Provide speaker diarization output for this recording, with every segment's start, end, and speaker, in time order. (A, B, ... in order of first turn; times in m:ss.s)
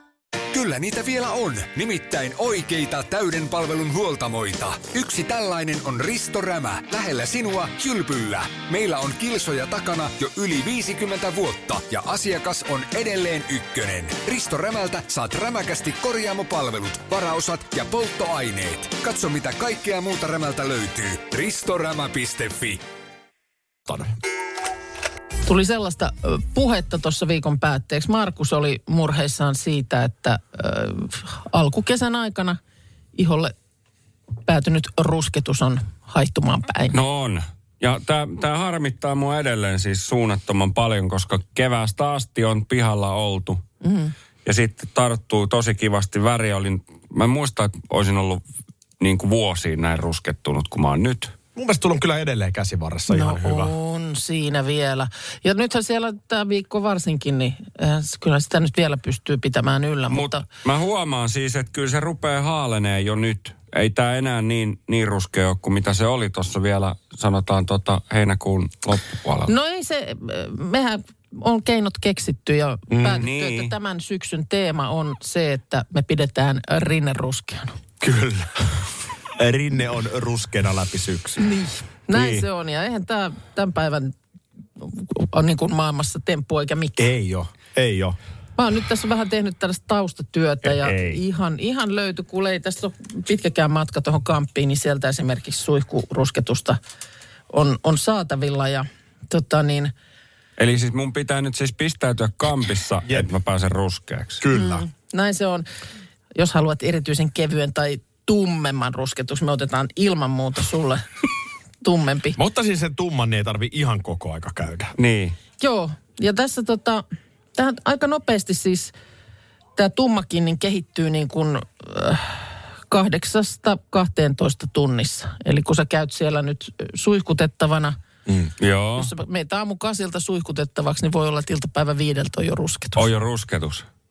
0:00.5-0:22.8 A
0:23.9-0:24.1 B
0:25.4-0:32.6 C
0:33.1-0:33.5 C
0:34.4-0:37.0 C
0:36.9-0:43.6 D
0:43.8-0:44.1 C
0:44.4-0:48.4 D
0:49.0-0:51.3 D
0:51.5-0:53.7 B
0:53.1-1:00.4 C
1:00.1-1:09.5 D
1:09.5-1:17.8 C
1:12.9-1:13.2 B
1:13.1-1:13.7 D
1:18.0-1:18.8 B
1:19.4-1:21.4 B
1:21.4-1:24.2 C
1:22.1-1:22.4 B
1:24.8-1:27.1 C
1:27.0-1:28.2 B
1:28.6-1:36.8 C
1:30.6-1:31.2 B
1:37.5-1:39.9 C
1:40.6-1:44.4 D
1:44.4-1:44.8 B
1:44.5-1:45.6 C
1:46.3-1:51.0 C
1:51.8-1:52.4 C
1:52.4-1:54.9 B
1:55.0-1:55.4 D
1:55.6-1:57.0 C
1:57.6-1:58.9 C
1:59.8-2:08.0 C
2:08.6-2:09.1 D
2:08.9-2:13.1 C
2:13.0-2:13.8 D